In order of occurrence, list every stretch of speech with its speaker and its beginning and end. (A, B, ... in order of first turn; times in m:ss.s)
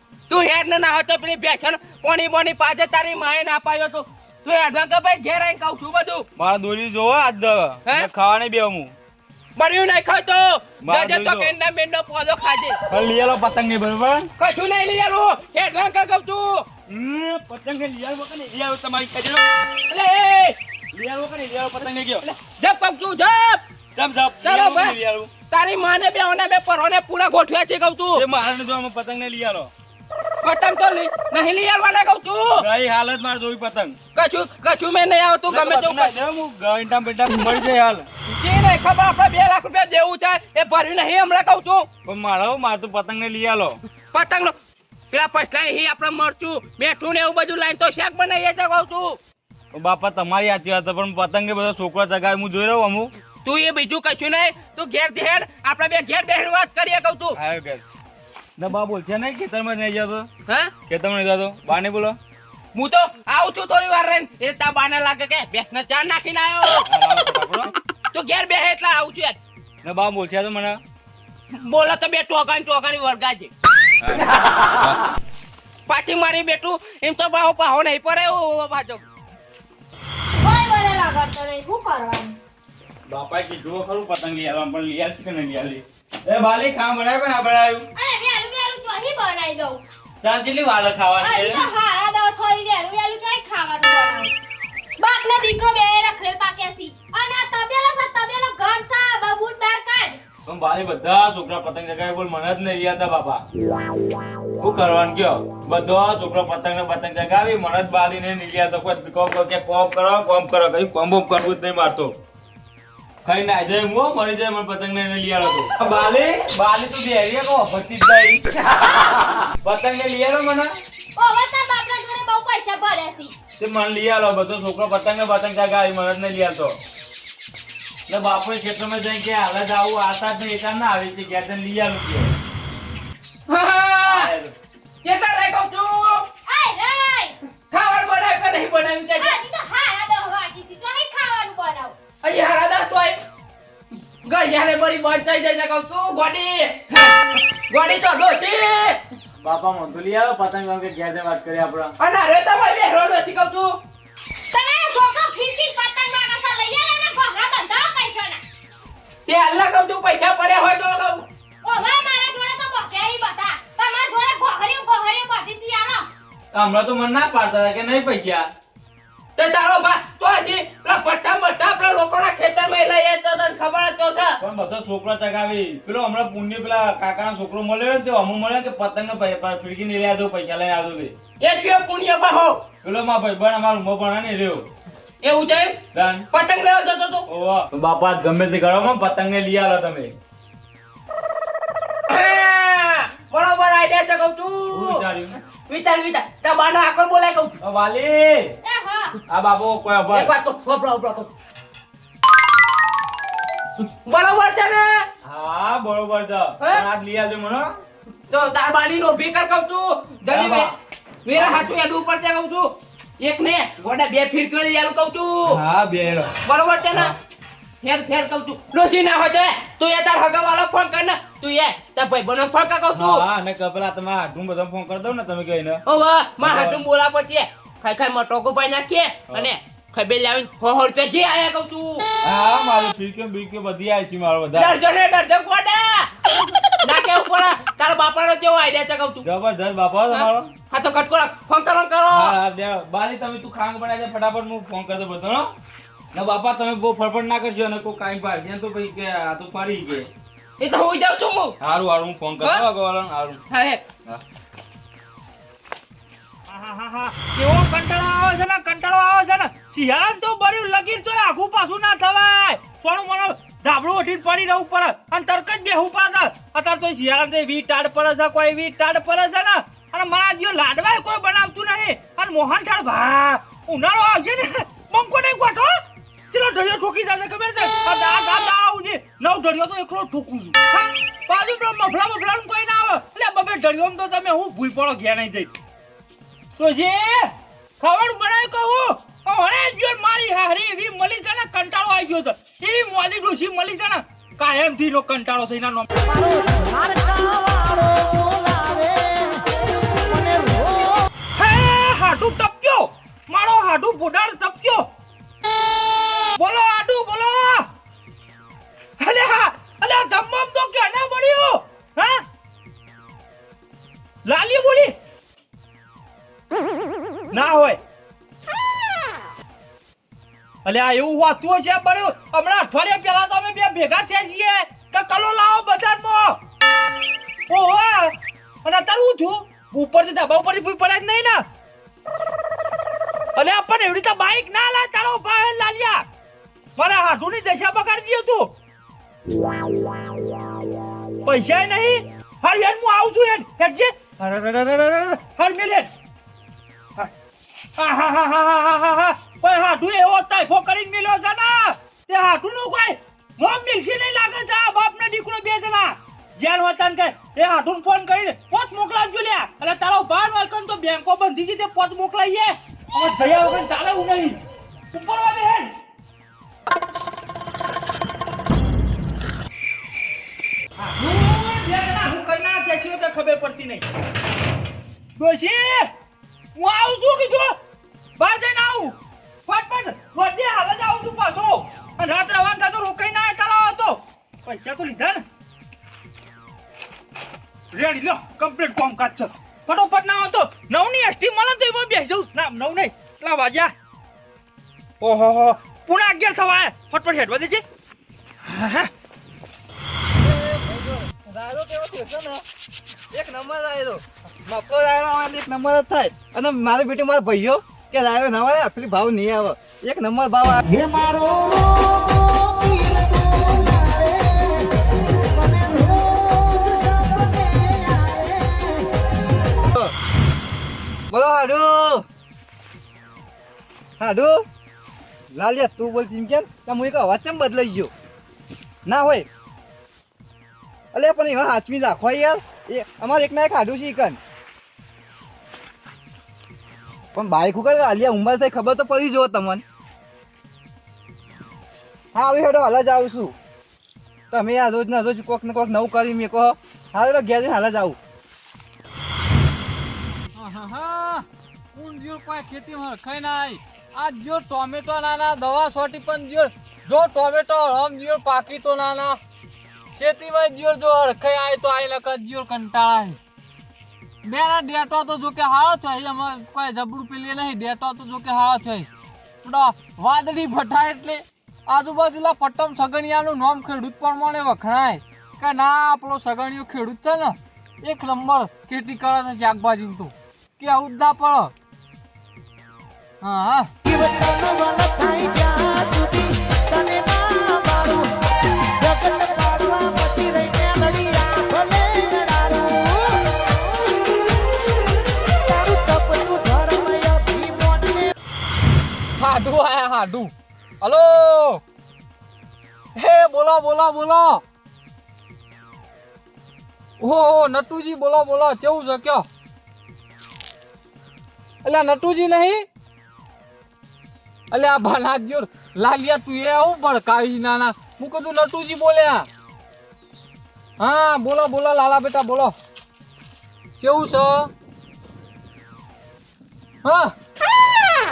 0:00.3-0:06.2 A
0:06.4-0:08.9 B
0:09.6-0:12.8 A
0:10.8-0:11.5 B
0:12.9-0:14.3 B
0:14.4-0:16.6 A
0:16.9-0:19.4 B
0:19.9-0:20.6 A
0:20.9-0:22.2 B
0:22.2-0:23.6 A
0:24.0-0:25.3 B
0:24.4-0:25.0 A
0:25.5-0:28.2 A
0:28.2-0:29.7 B
0:30.4-0:32.7 A
0:32.5-0:34.0 B
0:34.2-0:36.2 A
0:35.5-0:38.1 B
0:38.3-0:41.9 A
0:42.0-0:43.8 B
0:44.1-0:44.5 A
0:45.1-0:49.2 A
0:49.7-0:53.1 B
0:53.4-0:57.4 A
0:57.3-0:57.8 B
0:58.6-1:00.3 B
1:00.5-1:00.7 A
1:00.9-1:02.2 B
1:02.7-1:06.8 A
1:06.8-1:07.7 B
1:08.1-1:09.4 A
1:09.8-1:10.8 B
1:11.5-1:13.5 A
1:14.0-1:15.0 B
1:15.9-1:19.1 A
1:20.4-1:22.4 C
1:23.0-1:27.9 B
1:27.9-1:29.8 C
1:30.2-1:31.7 B
1:31.2-1:34.3 C
1:35.0-1:40.2 C
1:40.5-1:43.4 B
1:44.6-1:52.2 B
1:53.2-1:58.4 B
1:58.8-1:59.2 C
1:59.6-2:00.7 B
2:01.2-2:03.3 C
2:03.6-2:06.8 B
2:08.1-2:12.3 B
2:13.5-2:14.3 A
2:14.0-2:14.5 B
2:15.0-2:16.3 A
2:16.5-2:17.4 C
2:17.7-2:19.4 A
2:19.2-2:22.0 C
2:22.2-2:23.2 A
2:24.2-2:27.2 A
2:27.7-2:29.0 A
2:29.4-2:31.9 B
2:32.0-2:33.8 A
2:34.5-2:38.4 C
2:39.2-2:41.2 A
2:41.6-2:46.1 C
2:46.5-2:48.5 B
2:49.4-2:54.4 A
2:54.4-3:01.1 B
3:01.4-3:02.6 A
3:02.8-3:04.7 B
3:05.2-3:07.2 A
3:05.9-3:06.3 B
3:07.3-3:10.1 B
3:12.1-3:15.0 A
3:14.7-3:15.4 B
3:15.7-3:17.5 A
3:17.6-3:18.6 B
3:18.6-3:19.2 C
3:19.3-3:20.3 B
3:20.1-3:21.3 A
3:24.0-3:25.1 A
3:25.2-3:27.7 B
3:28.3-3:30.7 A
3:30.3-3:30.7 B
3:31.2-3:35.6 A
3:31.3-3:31.7 B
3:35.5-3:36.3 B
3:36.4-3:37.2 A
3:37.8-3:43.2 A
3:42.9-3:45.8 B
3:45.8-3:52.1 A
3:46.4-3:46.8 B
3:52.2-3:54.7 B
3:54.6-3:56.1 A
3:56.8-3:59.2 A
3:59.2-4:00.5 B
4:00.1-4:02.3 A
4:02.1-4:05.5 B
4:06.1-4:10.1 B
4:10.6-4:11.6 A
4:11.6-4:13.4 B
4:12.4-4:12.6 A
4:13.5-4:13.8 A
4:16.5-4:45.5 D
4:46.6-4:56.1 D
5:01.4-5:04.9 D
5:06.4-5:07.7 D
5:09.0-5:12.2 D
5:14.2-5:14.9 D
5:17.3-5:17.8 D
5:20.6-5:26.4 D
5:27.5-5:31.4 D
5:33.4-5:36.0 D
5:36.8-5:38.5 D
5:41.2-5:45.9 D
5:47.8-6:04.4 D
6:04.9-6:05.8 D
6:10.8-6:13.9 D
6:15.2-6:15.9 D
6:16.5-6:17.6 D
6:18.2-6:25.2 D
6:27.7-6:33.7 D
6:35.0-6:37.6 D
6:38.4-6:38.9 D
6:40.2-6:42.4 E
6:43.1-6:50.6 E
6:50.7-6:52.2 B
6:59.7-6:59.9 E
7:01.1-7:02.0 E
7:04.0-7:04.4 E
7:05.3-7:07.9 E
7:08.8-7:09.3 E
7:10.9-7:14.2 E
7:17.1-7:19.6 E
7:22.1-7:23.3 E
7:24.3-7:28.0 E
7:30.3-7:39.2 F
7:39.9-7:43.2 F
7:44.2-7:48.9 F
7:49.4-8:01.5 F
8:03.2-8:03.7 F
8:19.2-8:21.6 F
8:23.0-8:24.4 F
8:27.0-8:29.2 F
8:31.6-8:32.6 F
8:34.5-8:39.3 F
8:40.8-8:42.5 F
8:43.8-8:44.5 F
8:46.8-8:47.1 F